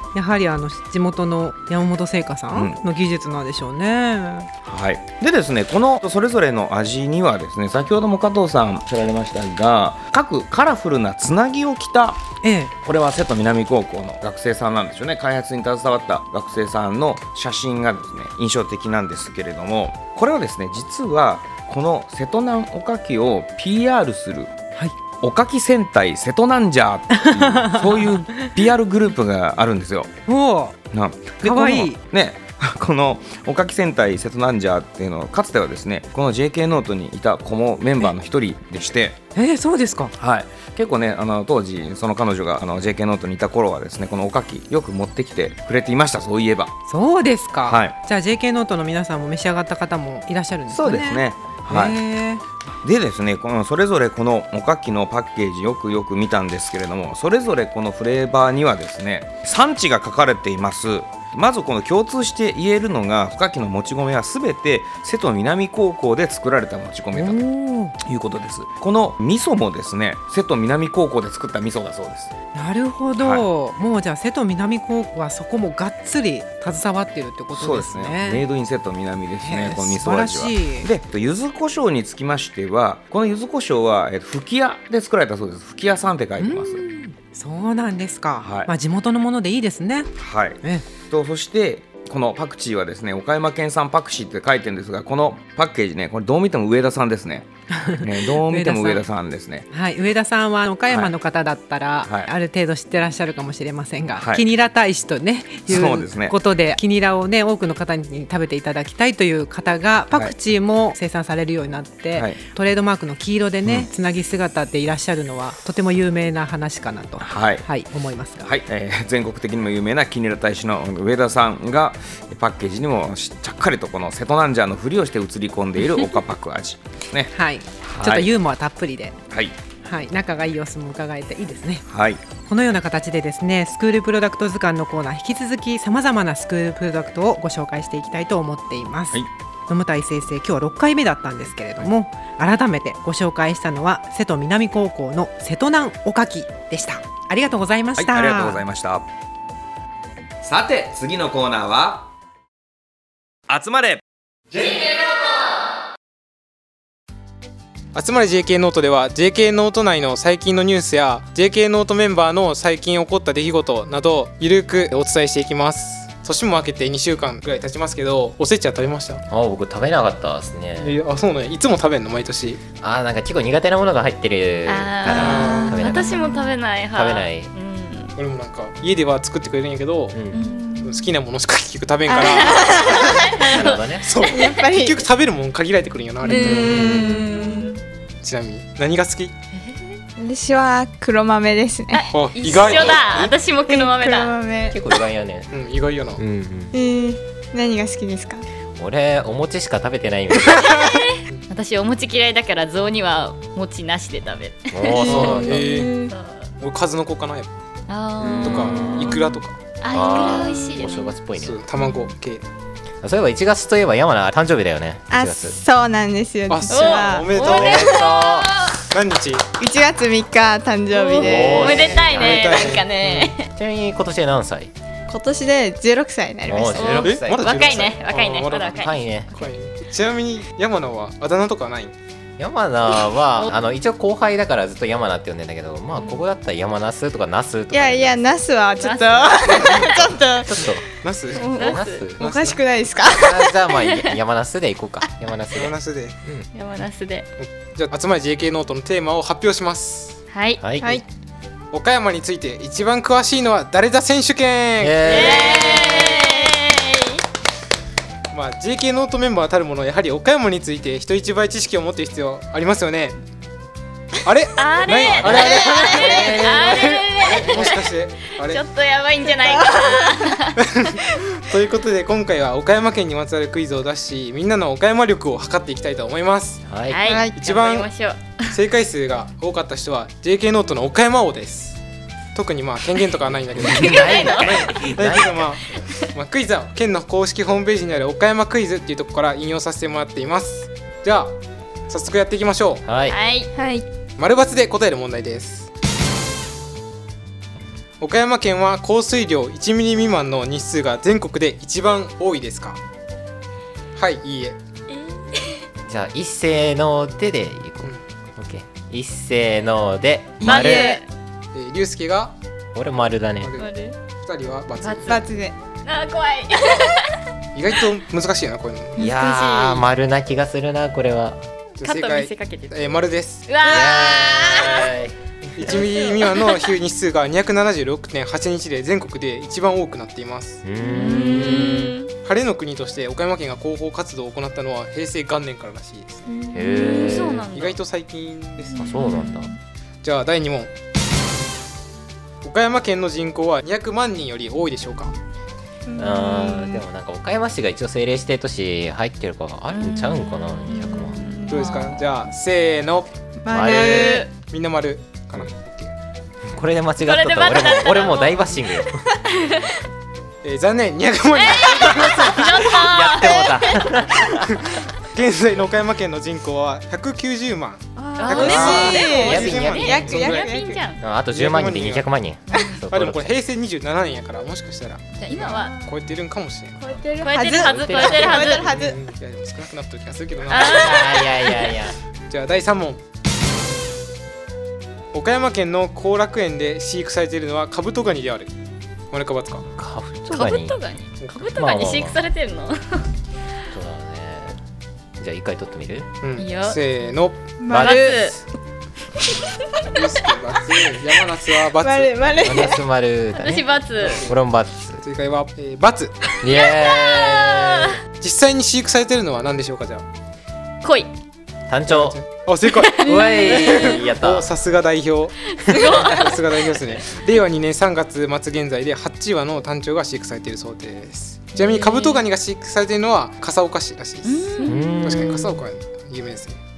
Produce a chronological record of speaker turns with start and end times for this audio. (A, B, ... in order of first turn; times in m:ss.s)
0:00.1-0:04.5 A
0:04.6-0:12.2 B
0:12.4-0:12.7 A
0:12.8-0:24.5 B
0:25.2-0:30.1 B
0:27.1-0:28.5 A
0:30.3-0:30.8 A
0:30.9-0:39.2 B
0:31.4-0:32.0 A
0:39.3-0:40.1 A
0:40.2-0:46.7 B
0:46.9-0:52.4 A
0:47.6-0:47.9 B
0:50.7-0:52.0 B
0:52.8-1:07.4 B
1:07.1-1:08.0 A
1:08.0-1:12.3 B
1:12.5-1:18.4 A
1:13.2-1:13.4 B
1:17.5-1:26.8 B
1:19.4-1:20.9 A
1:26.4-1:30.1 A
1:28.4-1:28.7 B
1:30.2-1:39.6 B
1:37.7-1:39.0 A
1:39.7-1:58.5 A
1:42.0-1:42.3 B
1:44.2-1:44.4 B
1:45.7-1:46.4 B
1:57.2-1:57.6 B
1:58.4-2:07.3 B
2:07.3-2:09.2 A
2:07.8-2:08.3 B
2:09.3-2:09.6 B
2:09.8-2:11.8 A
2:11.9-2:12.2 B
2:12.4-2:28.6 A
2:28.0-2:29.1 B
2:30.4-2:32.1 B
2:33.5-2:34.0 B
2:37.9-2:49.2 C
2:49.3-2:51.0 D
2:50.8-2:52.6 C
2:52.8-2:56.4 D
2:54.6-2:58.2 E
2:55.1-2:55.9 C
2:55.2-2:55.9 F
2:56.9-2:57.5 D
2:58.2-3:00.3 C
3:00.1-3:00.4 D
3:00.3-3:00.8 E
3:00.4-3:00.9 F
3:00.8-3:07.3 C
3:02.1-3:03.6 F
3:02.2-3:03.9 E
3:03.4-3:04.2 D
3:04.2-3:05.0 F
3:06.2-3:07.8 F
3:06.3-3:07.8 E
3:06.5-3:07.0 D
3:08.2-3:09.3 C
3:10.2-3:12.1 F
3:11.9-3:14.4 E
3:12.1-3:13.3 C
3:12.9-3:13.3 D
3:13.7-3:14.8 F
3:14.7-3:15.5 D
3:15.5-3:16.2 C
3:16.2-3:16.7 D
3:16.7-3:18.4 F
3:18.8-3:20.9 D
3:20.5-3:26.5 E
3:24.7-3:25.6 D
3:25.0-3:25.9 C
3:25.0-3:26.1 F
3:26.6-3:27.5 C
3:27.9-3:31.1 E
3:28.2-3:29.2 D
3:28.3-3:29.6 C
3:29.9-3:31.6 D
3:31.4-3:32.4 C
3:33.0-3:35.6 D
3:35.1-3:37.4 F
3:36.5-3:38.0 C
3:36.7-3:38.8 E
3:37.4-3:38.6 D
3:38.9-3:39.4 C
3:39.6-3:42.0 F
3:40.9-3:43.5 E
3:41.2-3:44.7 D
3:41.4-3:43.3 C
3:45.1-3:47.1 F
3:46.5-3:47.5 D
3:46.7-3:48.9 E
3:47.0-3:51.9 C
3:48.7-3:49.3 D
3:52.4-3:58.2 D
3:56.0-3:56.2 E
3:57.7-4:00.7 F
3:58.8-4:00.1 E
4:00.5-4:00.8 D
4:01.0-4:02.6 C
4:01.4-4:02.1 E
4:01.5-4:02.2 D
4:02.2-4:03.6 F
4:03.1-4:06.5 D
4:03.8-4:04.1 E
4:05.5-4:06.2 C
4:06.5-4:07.3 E
4:07.4-4:10.2 C
4:10.3-4:10.6 E
4:10.6-4:11.0 D
4:10.8-4:11.0 F
4:11.7-4:16.2 C
4:14.8-4:15.9 D
4:15.0-4:17.2 E
4:15.6-4:16.6 F
4:18.3-4:23.2 C
4:24.2-4:28.6 C
4:24.6-4:30.6 E
4:25.0-4:27.5 D
4:25.4-4:26.4 F
4:29.4-4:30.3 F
4:30.6-4:36.6 C
4:36.6-4:37.0 D
4:36.9-4:38.5 E
4:37.0-4:37.4 F
4:37.4-4:37.9 C
4:38.5-4:41.8 C
4:42.3-4:51.3 C
4:43.6-4:45.4 D
4:43.6-4:44.8 E
4:51.9-4:52.8 C
4:52.8-4:53.2 D
4:53.1-4:53.5 E
4:53.5-4:53.8 F
4:54.2-4:55.7 C
4:58.0-5:02.8 C
5:04.0-5:04.6 C
5:04.9-5:05.6 E
5:05.9-5:11.0 D
5:10.4-5:11.0 E
5:10.4-5:11.0 F
5:11.5-5:12.3 C
5:12.7-5:13.5 D
5:13.4-5:13.7 C
5:13.6-5:14.0 E
5:14.2-5:15.3 C
5:14.8-5:15.2 E
5:15.0-5:15.5 F
5:15.8-5:17.2 E
5:17.5-5:19.0 C
5:19.0-5:19.8 E
5:19.0-5:21.4 D
5:21.8-5:23.5 C
5:21.8-5:22.9 E
5:23.5-5:24.9 E
5:23.7-5:25.1 D
5:23.7-5:24.6 F
5:25.6-5:30.6 C
5:25.7-5:26.6 E
5:30.6-5:31.8 D
5:30.8-5:32.1 E
5:31.3-5:36.3 C
5:36.4-5:36.7 F
5:36.5-5:37.5 D
5:36.7-5:37.8 E
5:37.5-5:39.0 C
5:38.8-5:39.5 D
5:38.9-5:39.4 E
5:40.0-5:40.7 C
5:42.4-5:45.1 C
5:45.9-5:46.8 F
5:46.0-5:51.2 D
5:49.7-5:52.0 E
5:51.5-5:53.1 C
5:53.4-5:54.3 F
5:53.5-5:54.1 D
5:53.6-5:54.3 E
5:53.9-5:55.9 C
5:56.5-5:59.0 D
5:57.0-5:59.7 E
6:00.4-6:02.9 C
6:01.3-6:04.0 E
6:02.4-6:04.5 D
6:04.5-6:10.5 C
6:08.0-6:10.9 F
6:08.2-6:11.0 E
6:08.3-6:10.1 D
6:11.0-6:13.3 D
6:11.3-6:12.1 C
6:12.9-6:17.0 C
6:15.2-6:15.8 E
6:15.5-6:15.9 F
6:16.8-6:19.0 F
6:17.2-6:18.7 E
6:17.6-6:18.5 D
6:18.5-6:21.1 C
6:20.5-6:21.6 E
6:20.7-6:21.9 D
6:22.3-6:23.0 C
6:25.1-6:28.5 C
6:29.1-6:29.7 C
6:29.8-6:30.8 D
6:30.3-6:33.1 E
6:31.2-6:31.5 C
6:31.5-6:32.2 D
6:33.7-6:34.6 D
6:35.2-6:36.1 D
6:36.2-6:37.5 C
6:36.4-6:36.8 E
6:37.6-6:38.3 F
6:37.7-6:38.4 E
6:37.7-6:38.4 D
6:39.9-6:42.5 C
6:41.8-6:42.8 F
6:42.4-6:45.0 D
6:43.3-6:44.3 E
6:44.0-6:44.3 C
6:45.0-6:46.3 C
6:46.4-6:48.0 D
6:46.5-6:48.0 E
6:48.2-6:50.0 C
6:50.8-6:51.1 E
6:51.7-6:52.2 D
6:51.9-7:06.6 C
6:52.8-6:53.9 E
6:53.0-6:54.5 D
6:55.6-6:56.8 E
6:55.7-6:55.9 D
7:01.5-7:02.2 E
7:04.2-7:05.5 E
7:04.6-7:05.5 D